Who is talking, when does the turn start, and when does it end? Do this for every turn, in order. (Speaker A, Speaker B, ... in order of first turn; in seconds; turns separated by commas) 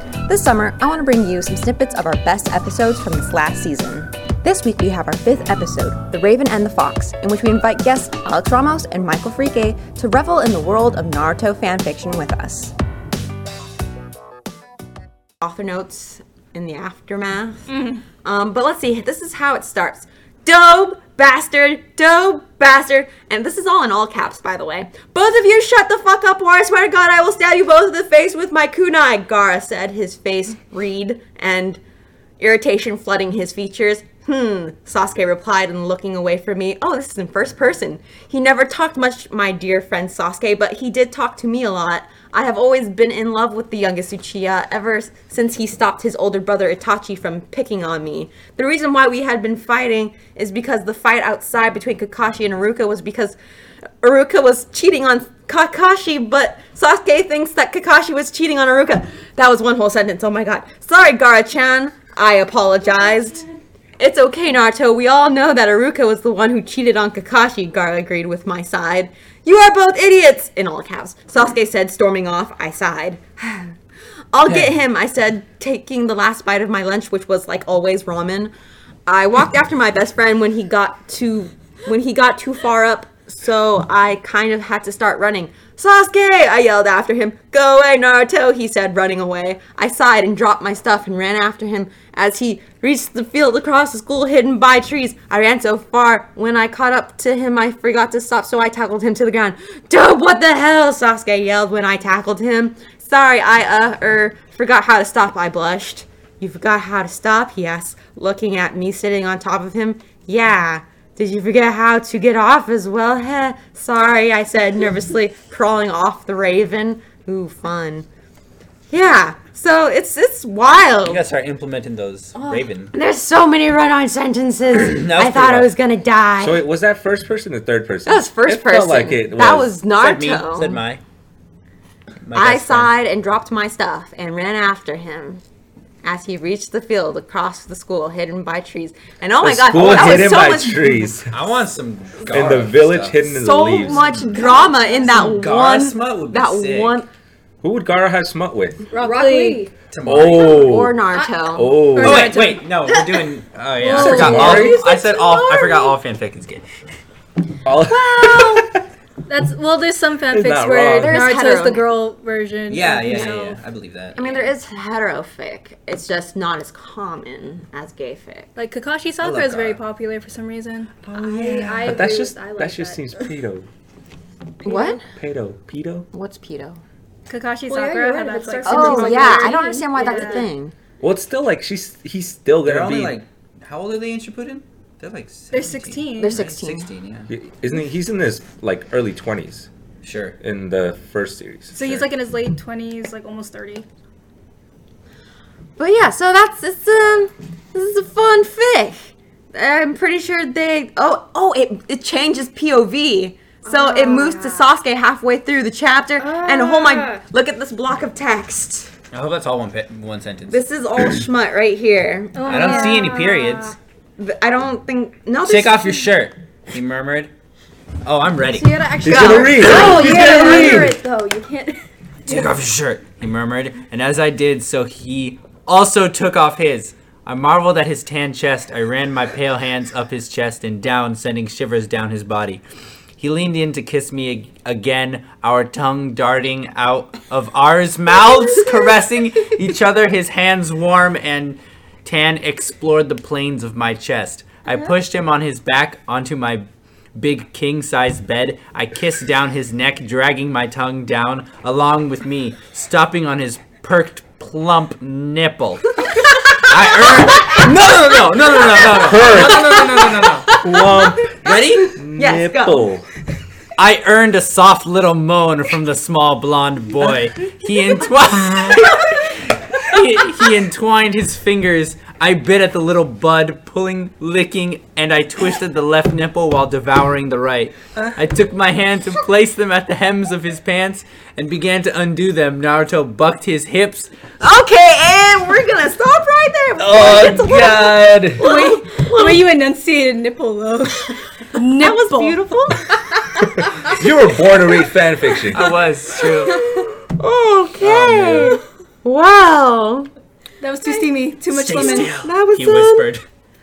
Speaker A: 0.3-12.7, Speaker A: 15.4-31.8, Speaker A: 32.4-53.4, Speaker A: 54.0-63.4, Speaker A: 64.0-73.7, Speaker A: 74.3-78.5, Speaker A: 79.0-118.0, Speaker A: 118.9-121.2, Speaker B: 121.0-122.9, Speaker A: 122.4-126.6, Speaker B: 124.7-125.7, Speaker C: 126.4-129.7, Speaker A: 128.1-130.8, Speaker B: 130.0-131.0, Speaker B: 132.2-132.9, Speaker A: 132.3-135.4, Speaker A: 136.0-141.1, Speaker C: 139.4-141.3, Speaker B: 141.3-143.2, Speaker C: 142.3-144.1, Speaker A: 143.2-147.1, Speaker B: 143.8-144.5, Speaker D: 144.3-145.2, Speaker B: 145.1-147.0, Speaker C: 147.6-148.8, Speaker D: 148.9-149.7, Speaker E: 148.9-149.7, Speaker B: 149.9-150.6, Speaker C: 150.0-151.0, Speaker A: 150.3-151.8, Speaker C: 151.5-152.3, Speaker E: 151.9-152.6, Speaker D: 152.0-152.2, Speaker B: 152.0-156.6, Speaker C: 153.9-154.9, Speaker A: 153.9-154.7, Speaker D: 154.1-155.9, Speaker C: 157.6-158.8, Speaker E: 158.0-158.6, Speaker E: 159.3-163.6, Speaker C: 160.3-161.2, Speaker A: 161.0-161.9, Speaker D: 161.0-161.6, Speaker B: 162.7-164.5, Speaker A: 164.2-168.5, Speaker E: 168.6-171.8, Speaker B: 169.2-169.8, Speaker A: 171.2-171.9, Speaker D: 171.2-173.0, Speaker C: 171.8-173.7, Speaker A: 174.6-175.0, Speaker D: 174.7-174.9, Speaker C: 175.1-176.1, Speaker A: 176.1-176.8, Speaker E: 177.3-180.5, Speaker D: 177.7-180.5, Speaker A: 178.6-180.7, Speaker C: 181.0-183.2, Speaker B: 182.6-187.3, Speaker E: 185.5-186.4, Speaker A: 186.2-186.9, Speaker C: 187.3-189.7, Speaker B: 190.0-190.4, Speaker C: 190.4-192.1, Speaker E: 191.7-193.8, Speaker A: 195.8-208.9, Speaker D: 203.7-204.7, Speaker D: 206.2-207.2, Speaker B: 209.1-210.6, Speaker A: 210.5-213.2, Speaker E: 212.3-213.3, Speaker B: 212.4-213.8, Speaker D: 213.1-213.5, Speaker A: 214.2-216.1, Speaker B: 215.4-217.3, Speaker B: 218.0-218.8, Speaker D: 218.5-221.8, Speaker C: 219.0-221.0, Speaker A: 219.0-219.7, Speaker E: 219.3-221.0, Speaker B: 222.2-232.6, Speaker B: 233.2-260.5, Speaker C: 258.9-263.1, Speaker A: 259.1-261.6, Speaker B: 261.4-261.9, Speaker A: 262.1-262.9, Speaker B: 263.8-284.1, Speaker A: 284.4-289.4, Speaker C: 286.8-288.4, Speaker E: 288.4-291.1, Speaker D: 291.5-292.3, Speaker E: 291.6-292.0, Speaker A: 291.8-292.9, Speaker C: 293.6-295.8, Speaker B: 295.5-296.7, Speaker A: 296.4-300.1, Speaker B: 297.8-298.6, Speaker E: 300.6-302.2, Speaker B: 301.5-303.2, Speaker A: 301.9-303.1